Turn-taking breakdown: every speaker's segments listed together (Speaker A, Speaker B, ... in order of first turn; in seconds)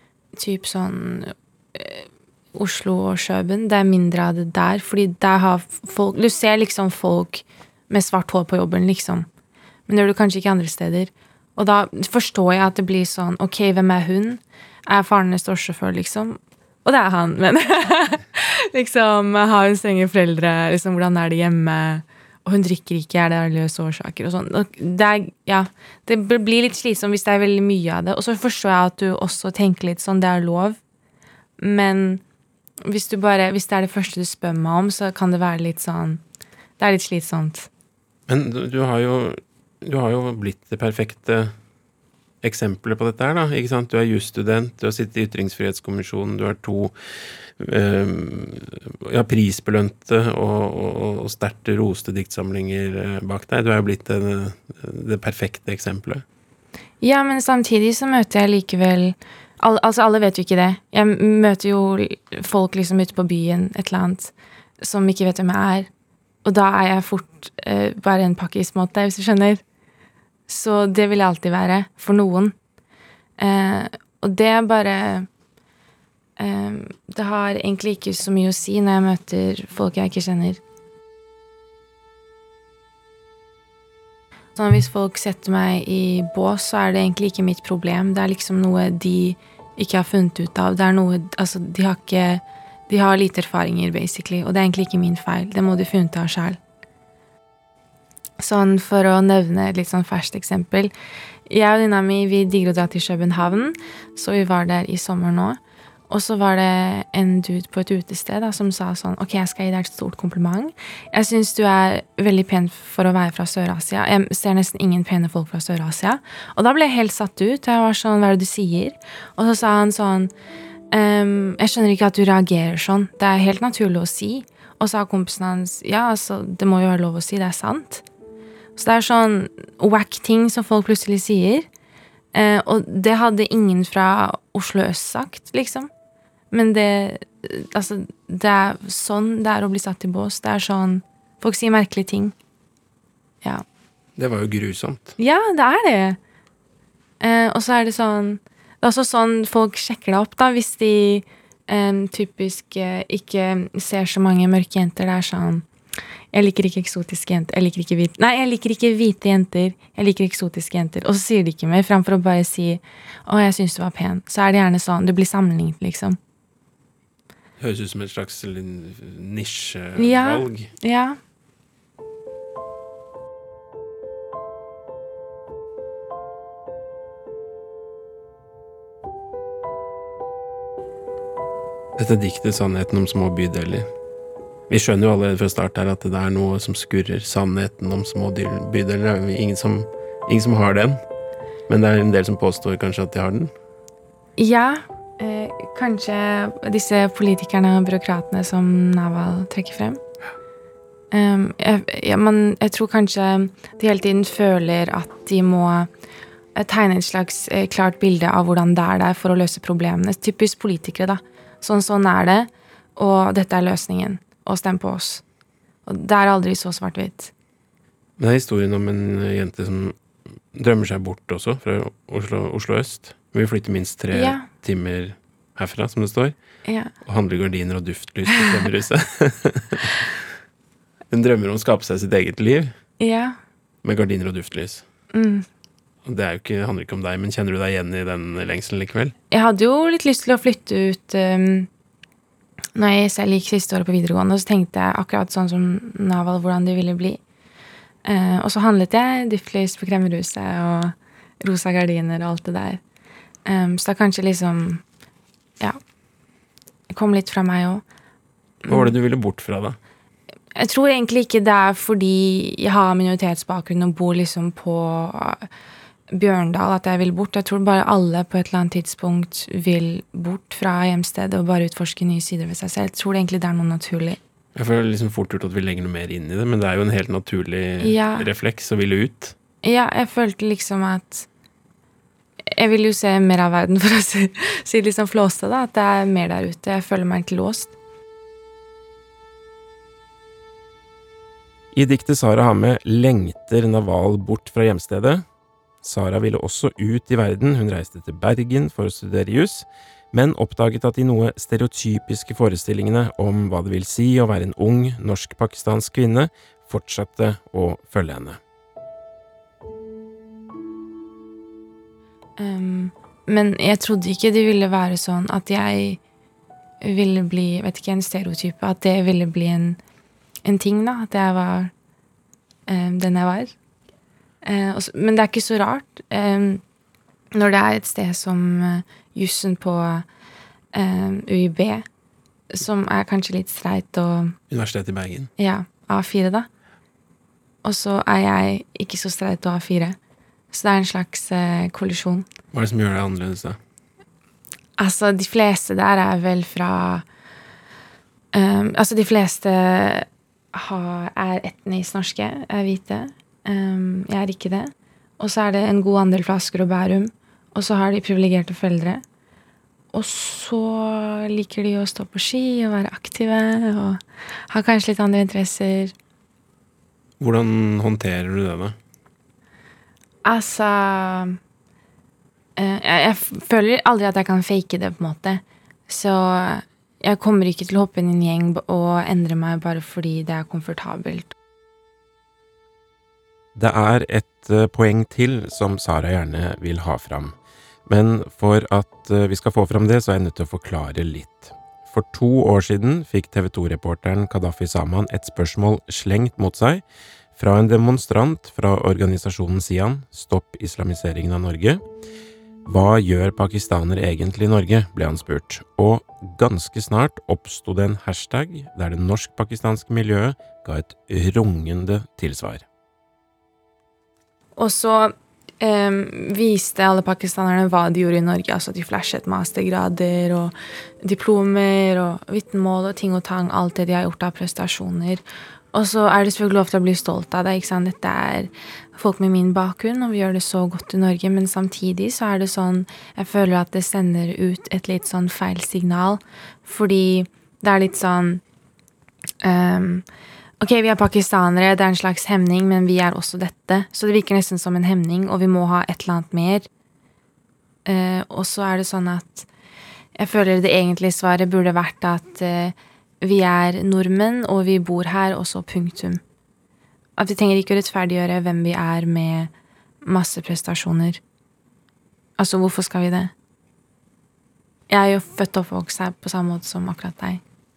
Speaker A: 0.4-9.3, 9.9-30.8, 31.6-32.2, 32.9-36.2, 36.8-37.7, 57.0-65.9, 66.5-69.6, 70.5-72.5, 73.4-75.3, 76.4-80.6, 84.6-96.6, 98.4-100.9, 101.5-105.6, 106.1-120.3, 120.9-128.1, 128.8-131.7, 132.3-135.9, 136.5-142.3, 145.2-146.2, 147.2-155.7, 156.3-166.2, 169.9-171.2, 194.4-200.0, 201.1-205.9, 206.6-215.2, 215.9-217.3, 224.1-224.5, 226.7-226.9, 228.3-228.6, 233.0-233.4, 235.1-235.5, 239.3-241.7, 242.8-247.2, 248.1-252.8, 253.5-254.8, 256.9-257.8, 258.6-258.9, 260.6-265.5, 266.1-274.2, 277.8-278.3, 279.6-281.3, 282.5-287.7, 312.4-316.0, 316.8-319.8, 320.4-321.7, 322.7-323.6, 324.4-326.6, 327.3-330.1, 330.7-331.9, 332.5-334.4, 335.4-336.5, 337.6-340.0, 340.5-342.3, 344.8-347.1, 348.3-359.0, 359.9-365.9, 370.2-371.4, 372.6-381.3, 414.6-438.4, 439.4-440.1, 440.6-446.7, 447.9-449.5, 450.2-456.2, 457.2-459.5, 460.0-461.2, 462.4-463.3, 464.9-467.4
Speaker B: 38.3-41.5, 42.4-46.9, 47.6-56.2, 144.2-145.1, 167.6-170.7, 182.0-183.9, 184.7-191.0, 191.7-193.5, 218.2-220.0, 220.5-226.3, 227.0-229.9, 231.1-232.7, 233.8-234.8, 236.1-239.1, 258.7-259.8, 274.6-279.4, 291.7-295.2, 295.8-308.4, 334.5-335.3, 342.5-343.6, 367.2-368.8, 383.6-387.4, 387.9-396.8, 397.4-401.8, 402.7-412.6